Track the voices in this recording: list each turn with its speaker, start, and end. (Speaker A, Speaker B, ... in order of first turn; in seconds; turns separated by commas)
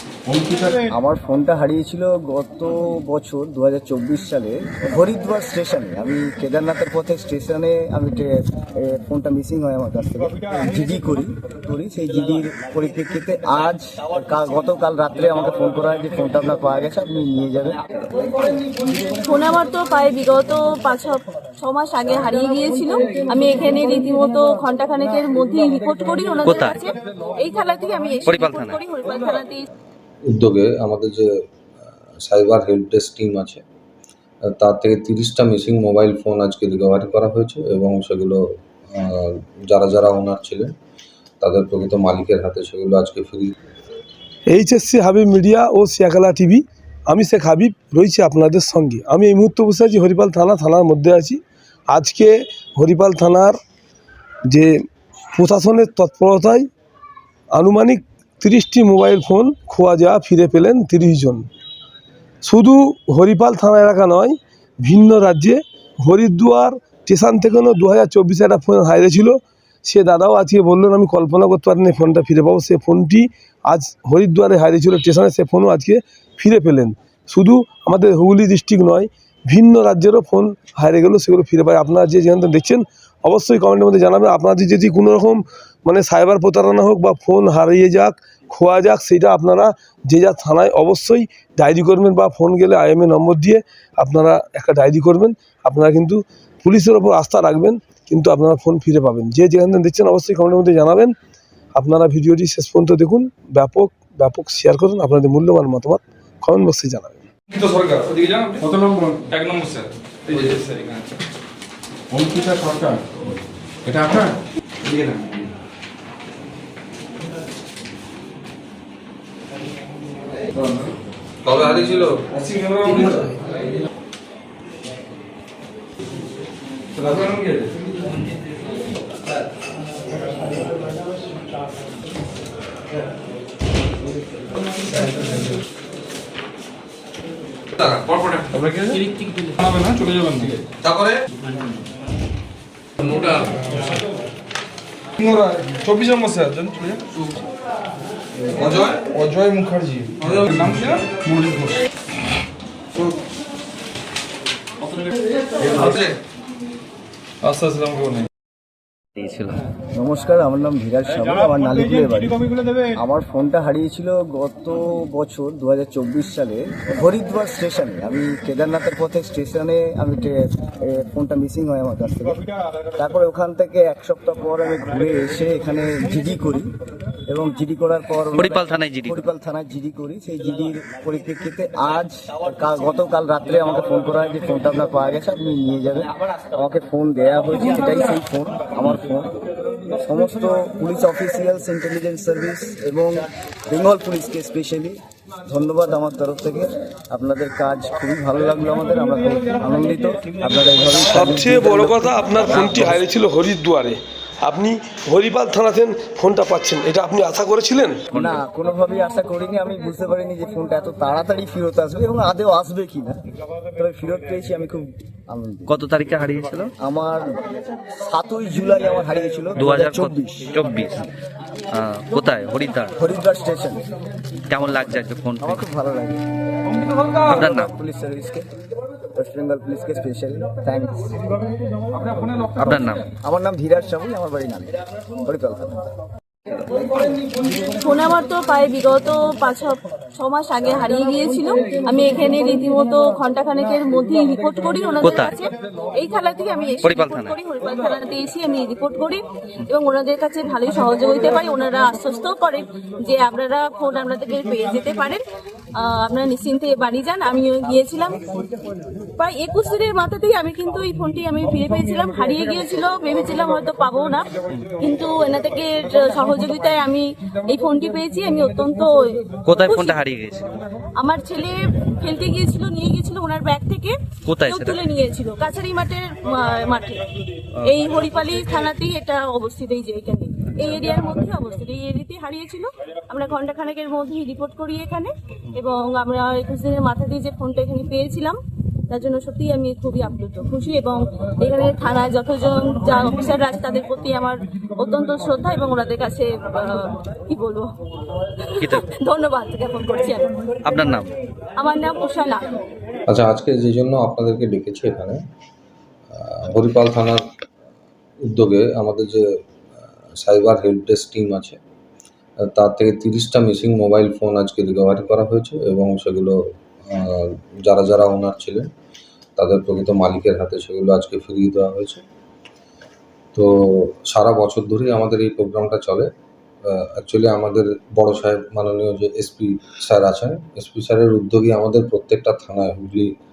Speaker A: 0.3-0.8, Speaker B: 0.9-17.8, Speaker C: 18.9-29.6, Speaker D: 26.4-26.8, Speaker D: 28.3-28.8, Speaker E: 30.3-31.3, Speaker E: 32.2-33.6, Speaker E: 34.5-38.4, Speaker E: 38.9-40.7, Speaker E: 41.4-43.5, Speaker F: 44.5-53.6, Speaker F: 54.5-54.8, Speaker F: 55.4-56.7, Speaker F: 57.5-61.5, Speaker F: 62.4-101.2, Speaker F: 101.8-107.2, Speaker G: 107.5-108.7, Speaker A: 108.6-109.2, Speaker G: 109.3-111.1, Speaker A: 112.1-113.0, Speaker A: 113.8-114.3, Speaker G: 114.9-115.2, Speaker G: 120.6-120.9, Speaker E: 121.4-122.2, Speaker G: 122.3-123.4, Speaker G: 127.0-127.7, Speaker G: 135.0-135.3, Speaker G: 137.8-139.1, Speaker G: 139.6-140.6, Speaker G: 143.0-144.0, Speaker G: 145.2-147.2, Speaker G: 148.6-151.8, Speaker G: 155.6-156.1, Speaker G: 157.4-158.3, Speaker D: 159.2-159.6, Speaker B: 159.9-172.4, Speaker B: 173.0-176.7, Speaker B: 177.3-189.3, Speaker D: 178.4-179.2, Speaker B: 190.0-203.0, Speaker F: 201.1-208.1, Speaker D: 208.1-208.4, Speaker B: 208.2-213.2, Speaker B: 213.8-215.8, Speaker D: 215.7-216.7, Speaker B: 216.8-217.4, Speaker B: 218.0-220.5, Speaker D: 219.6-221.1, Speaker D: 221.7-223.0, Speaker B: 223.0-223.8, Speaker D: 224.5-225.6, Speaker B: 225.4-226.2, Speaker D: 227.3-227.7, Speaker B: 227.3-228.5, Speaker B: 229.2-231.5, Speaker D: 232.6-233.1, Speaker B: 232.6-235.9, Speaker C: 237.5-255.2, Speaker D: 245.0-245.3, Speaker D: 246.8-247.4, Speaker C: 255.8-258.3, Speaker C: 259.2-270.0, Speaker D: 269.4-270.6, Speaker C: 271.0-277.0, Speaker D: 274.3-274.8, Speaker C: 277.6-288.4, Speaker C: 288.9-297.7, Speaker C: 298.6-300.4, Speaker D: 300.6-301.1, Speaker C: 301.6-302.5, Speaker E: 303.1-305.2, Speaker E: 306.1-307.2, Speaker E: 308.3-309.3, Speaker E: 310.2-311.6, Speaker E: 312.5-318.7, Speaker E: 319.4-322.0, Speaker E: 323.4-326.1, Speaker E: 326.7-333.1